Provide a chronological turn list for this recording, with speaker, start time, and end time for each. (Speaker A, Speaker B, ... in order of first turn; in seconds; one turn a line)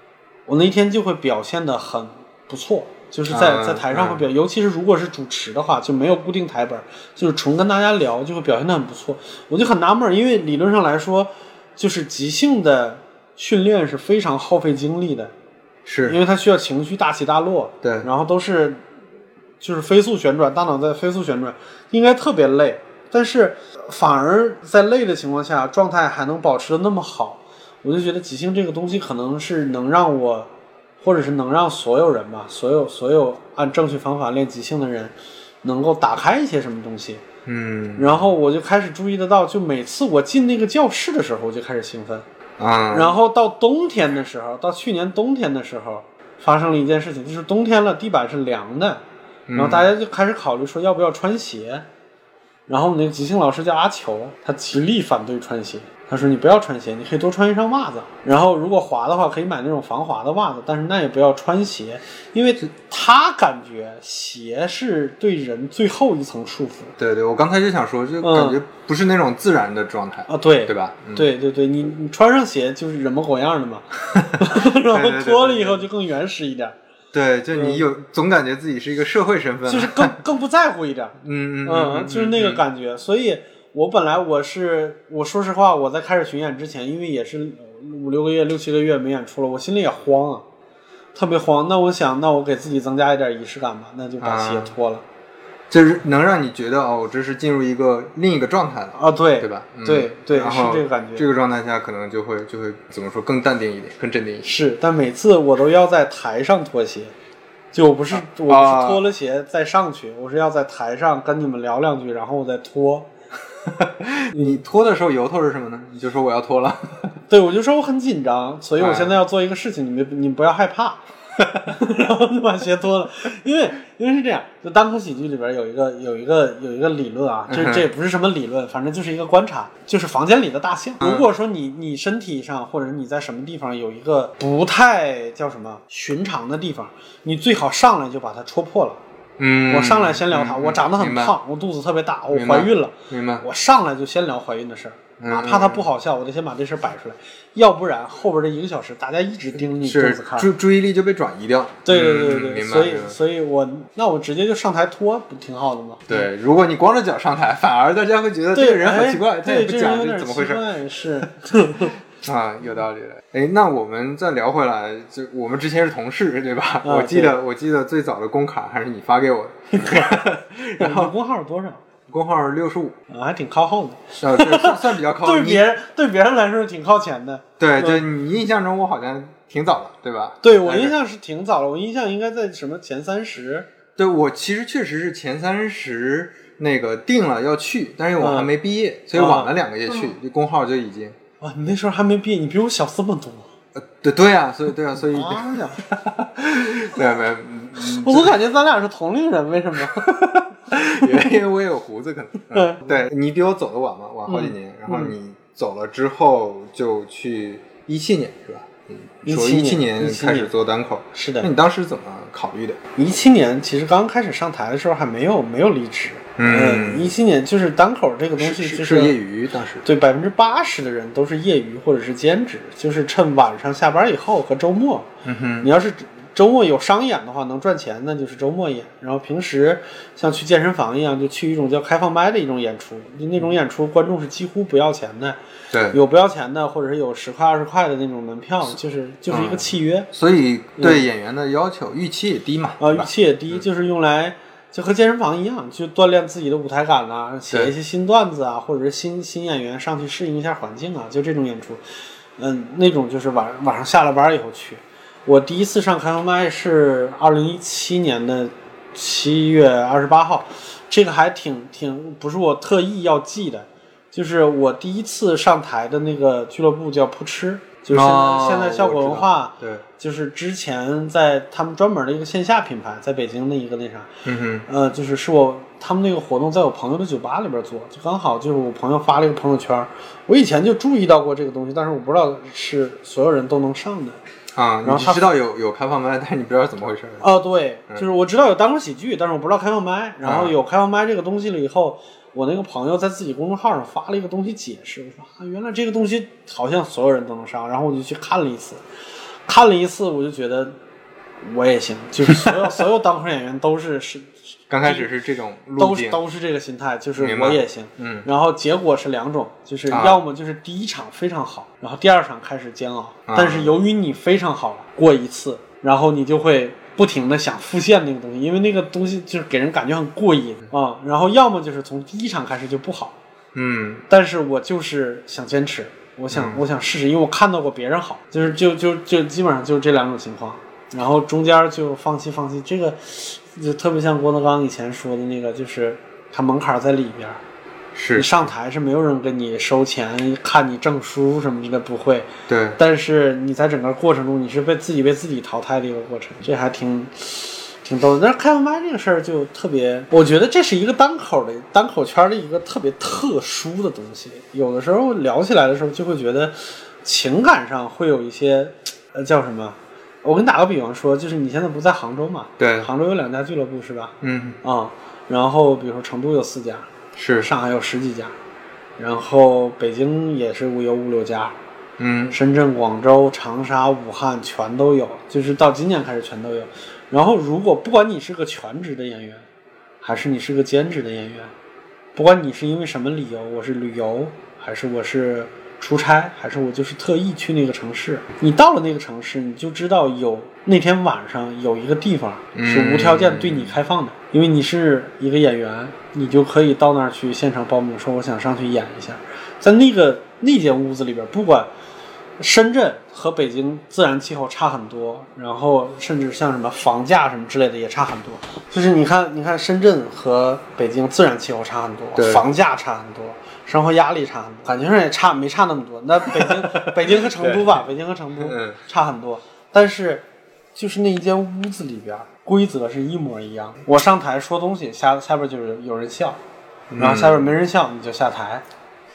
Speaker A: 0.5-15.3
Speaker B: 3.3-4.2
Speaker B: 15.8-16.2
Speaker A: 16.1-18.8
Speaker B: 17.8-18.1
Speaker A: 19.6-37.2
Speaker B: 37.5-38.2
Speaker A: 38.0-42.3
Speaker B: 42.6-43.1
Speaker A: 42.9-49.0
Speaker B: 49.5-49.9
Speaker A: 49.5-51.9
Speaker A: 52.7-67.0
Speaker B: 67.0-71.3
Speaker A: 68.2-68.6
Speaker A: 70.3-76.8
Speaker B: 74.2-75.8
Speaker B: 77.1-80.2
Speaker A: 77.5-77.8
Speaker A: 79.7-90.5
Speaker B: 81.2-82.6
Speaker A: 91.1-95.0
Speaker B: 94.2-94.7
Speaker B: 95.7-104.5
Speaker A: 99.0-101.3
Speaker A: 104.4-107.1
Speaker A: 107.7-113.1
Speaker B: 108.1-109.0
Speaker B: 113.7-117.2
Speaker A: 114.3-114.6
Speaker A: 117.3-121.0
Speaker B: 118.8-119.2
Speaker A: 121.7-139.0
Speaker B: 127.5-127.9
Speaker B: 131.0-131.3
Speaker B: 139.4-141.3
Speaker A: 139.7-150.5
Speaker B: 142.3-143.5
Speaker B: 145.2-145.9
Speaker B: 149.8-153.2
Speaker A: 151.8-156.2
Speaker B: 156.1-160.7
Speaker A: 158.5-161.9
Speaker B: 162.2-171.1
Speaker A: 166.8-167.4
Speaker A: 169.7-170.2
Speaker A: 170.8-171.8
Speaker B: 172.1-173.0
Speaker A: 173.1-178.0
Speaker B: 174.2-175.7
Speaker B: 177.6-180.9
Speaker A: 180.4-183.7
Speaker B: 184.0-191.2
Speaker A: 188.2-188.5
Speaker A: 189.1-189.5
Speaker A: 191.4-193.5
Speaker B: 193.7-198.4
Speaker A: 195.0-195.8
Speaker A: 197.8-200.3
Speaker B: 200.0-212.8
Speaker A: 202.5-202.9
Speaker A: 204.3-205.2
Speaker A: 209.3-210.5
Speaker A: 211.1-211.5
Speaker A: 212.9-219.2
Speaker B: 216.4-217.1
Speaker B: 218.4-219.8
Speaker A: 219.8-225.1
Speaker B: 225.2-225.7
Speaker A: 225.6-235.4
Speaker B: 235.7-236.0
Speaker A: 235.9-240.1
Speaker B: 239.3-243.6
Speaker A: 240.8-241.1
Speaker A: 242.8-251.8
Speaker A: 252.4-274.1
Speaker B: 267.9-269.9
Speaker B: 274.2-274.7
Speaker A: 274.7-284.2
Speaker B: 284.6-287.3
Speaker A: 284.8-285.4
Speaker A: 287.2-298.8
Speaker B: 290.2-290.6
Speaker A: 299.5-300.8
Speaker A: 301.4-304.3
Speaker B: 302.3-302.6
Speaker B: 304.7-306.2
Speaker A: 304.8-305.1
Speaker A: 305.8-323.1
Speaker B: 307.2-308.3
Speaker B: 309.9-310.2
Speaker B: 313.3-313.8
Speaker B: 323.6-324.1
Speaker A: 324.1-337.4
Speaker B: 326.3-326.6
Speaker B: 337.9-338.5
Speaker A: 338.1-368.4
Speaker B: 342.5-342.8
Speaker B: 362.6-362.9
Speaker B: 364.2-364.6
Speaker B: 367.2-367.5
Speaker A: 369.0-371.6
Speaker B: 372.0-372.4
Speaker A: 372.3-379.5
Speaker A: 380.0-381.5
Speaker A: 382.1-401.7
Speaker B: 392.6-393.8
Speaker A: 402.4-426.4
Speaker B: 412.1-412.4
Speaker B: 416.4-417.7
Speaker B: 418.4-418.8
Speaker B: 426.9-427.5
Speaker A: 427.0-428.6